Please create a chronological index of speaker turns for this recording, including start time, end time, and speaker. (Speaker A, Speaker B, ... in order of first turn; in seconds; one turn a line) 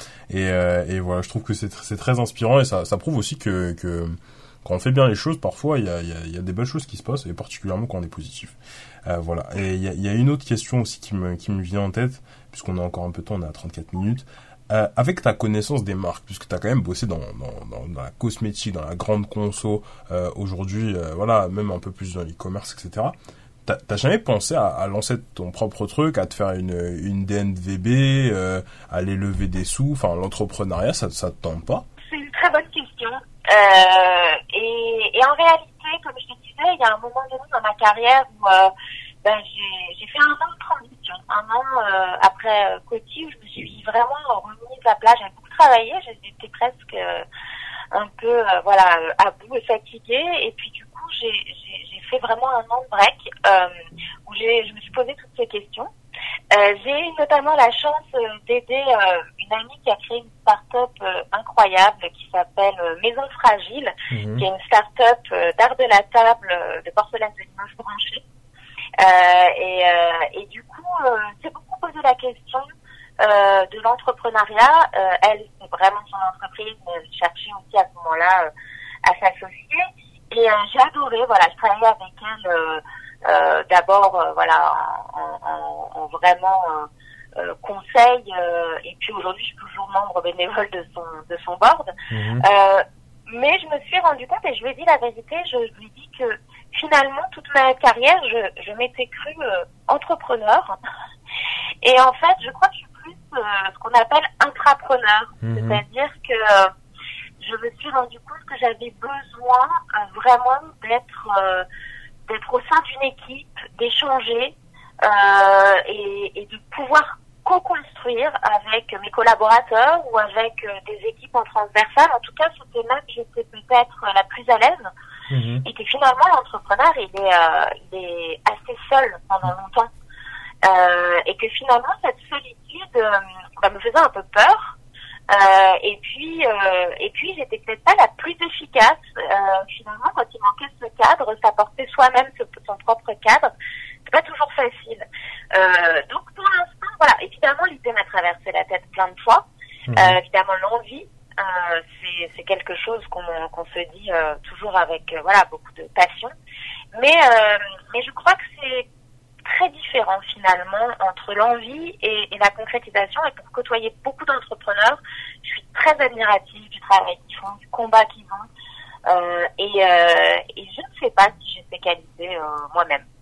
Speaker A: 0.3-23.1
Speaker A: 23.6-31.8
Speaker B: 32.0-38.7
Speaker B: 39.2-47.2
Speaker B: 47.9-53.7
Speaker B: 54.2-55.9
Speaker B: 56.5-68.2
Speaker A: 64.1-64.4
Speaker B: 69.0-72.7
Speaker B: 73.2-78.5
Speaker B: 79.0-100.8
Speaker A: 92.1-92.4
Speaker B: 101.8-106.7
Speaker A: 105.4-105.8
Speaker B: 107.4-111.7
Speaker B: 112.3-124.8
Speaker A: 125.3-125.6
Speaker B: 125.6-129.9
Speaker B: 130.6-134.8
Speaker B: 135.3-143.5
Speaker B: 144.1-156.3
Speaker A: 149.9-150.2
Speaker B: 156.9-158.9
Speaker B: 159.4-168.5
Speaker B: 169.1-173.1